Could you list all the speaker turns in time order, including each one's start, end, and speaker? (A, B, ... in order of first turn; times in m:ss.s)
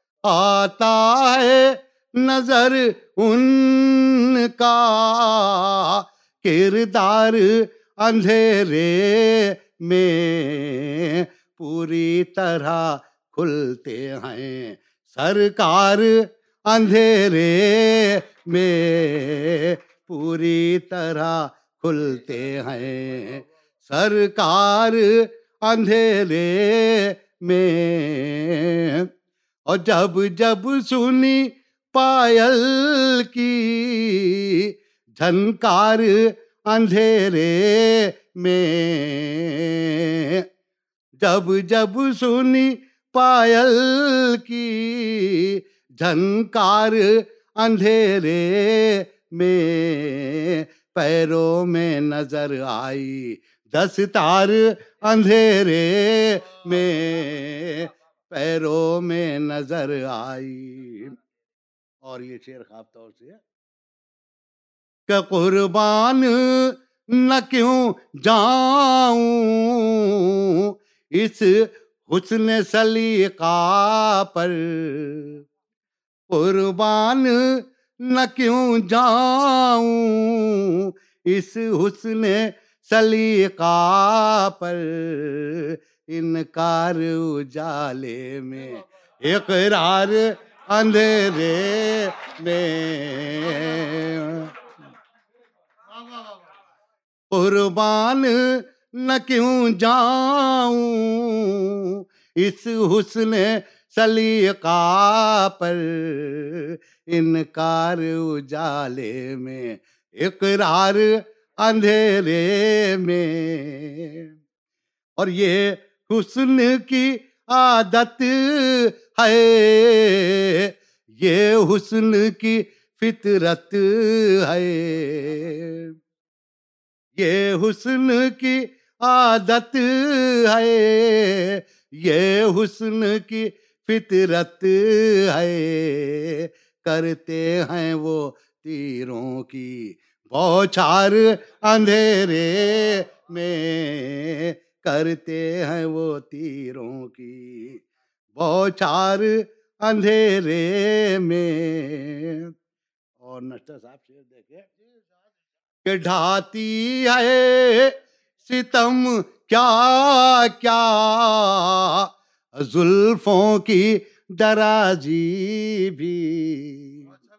0:00.3-0:29.0 A
0:29.7-0:40.4 A
0:41.2-1:01.2 A
1:02.0-1:03.4 A
1:05.1-1:15.4 A
1:16.3-1:34.5 A
1:37.3-1:54.3 A
1:55.2-2:05.9 A
2:07.2-2:27.8 A
2:28.3-2:32.5 A
2:33.2-2:34.7 A
2:35.8-2:47.1 A